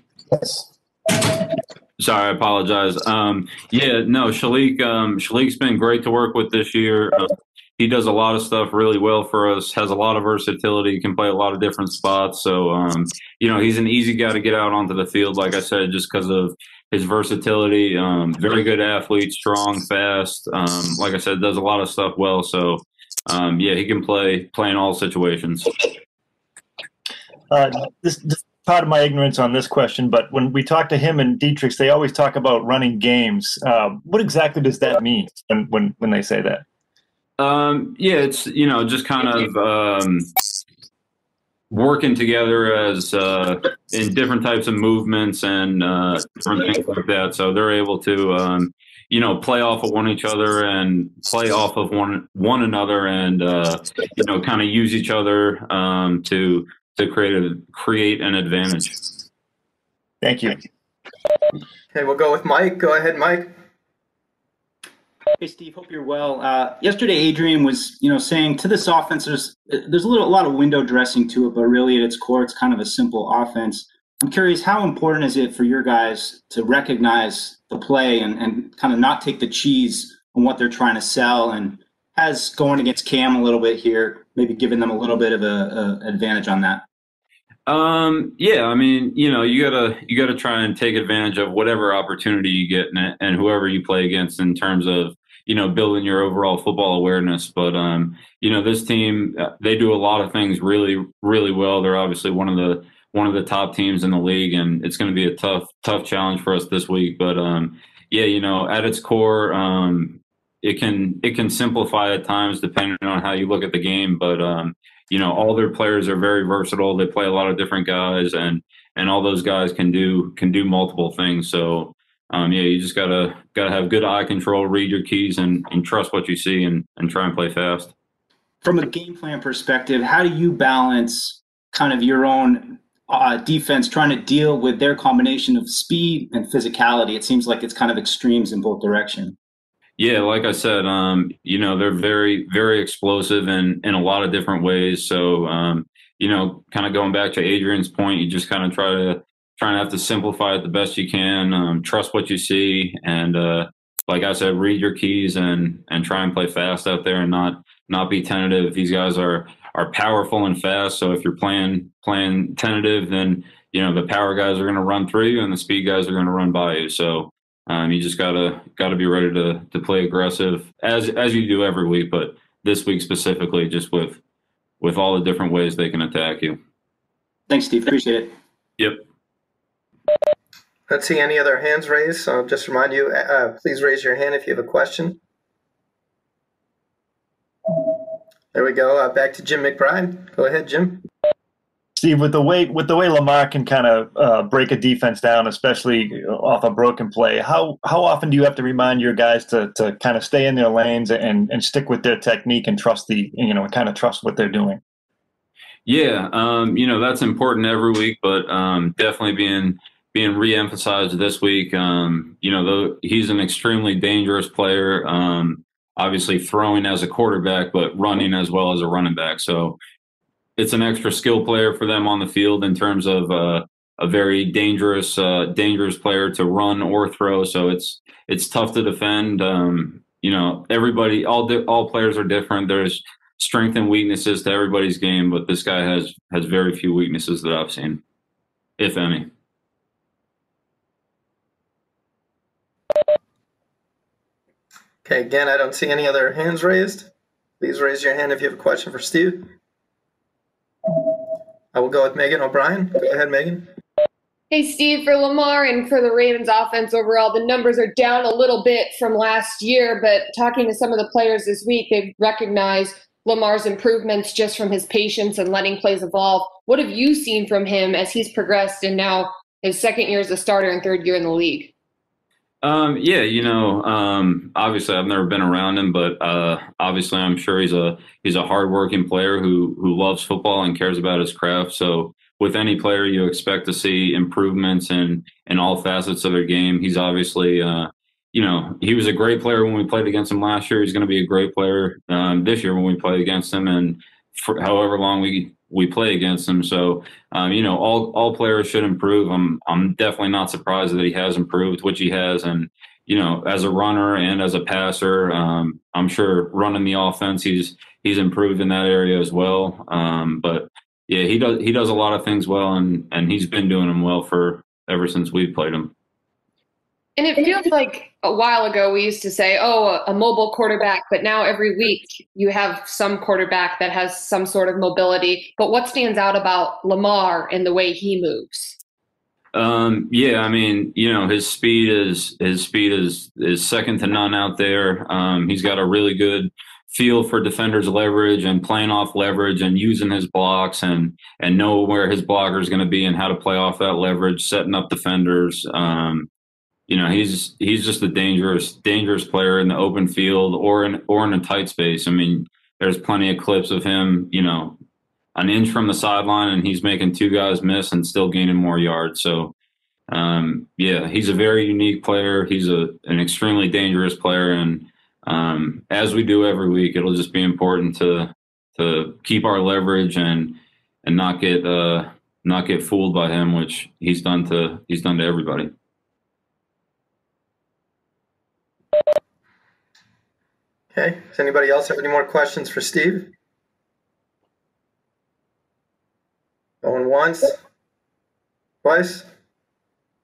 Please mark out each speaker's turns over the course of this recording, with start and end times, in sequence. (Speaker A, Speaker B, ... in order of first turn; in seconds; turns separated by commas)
Speaker A: 2.0-7.3, Speaker A: 7.8-25.7, Speaker B: 27.5-36.6, Speaker A: 37.4-40.3, Speaker A: 41.7-59.0, Speaker B: 60.2-60.6, Speaker C: 61.9-63.5, Speaker D: 65.4-86.8, Speaker A: 87.7-127.9, Speaker D: 128.6-139.3, Speaker A: 140.0-174.2, Speaker A: 174.8-176.6, Speaker D: 177.5-178.3, Speaker A: 178.8-179.0, Speaker C: 180.9-185.2, Speaker C: 188.5-191.0, Speaker B: 191.9-204.8, Speaker A: 205.8-219.8, Speaker A: 220.6-238.0, Speaker A: 238.8-239.3, Speaker C: 245.0-247.1, Speaker C: 247.6-249.5, Speaker C: 251.7-253.7, Speaker E: 254.5-271.7, Speaker A: 272.6-315.9, Speaker E: 317.2-328.8, Speaker A: 329.5-346.3, Speaker A: 346.9-354.8, Speaker A: 355.3-359.5, Speaker A: 360.1-375.7, Speaker C: 380.9-383.3, Speaker C: 386.8-387.5, Speaker C: 388.8-389.3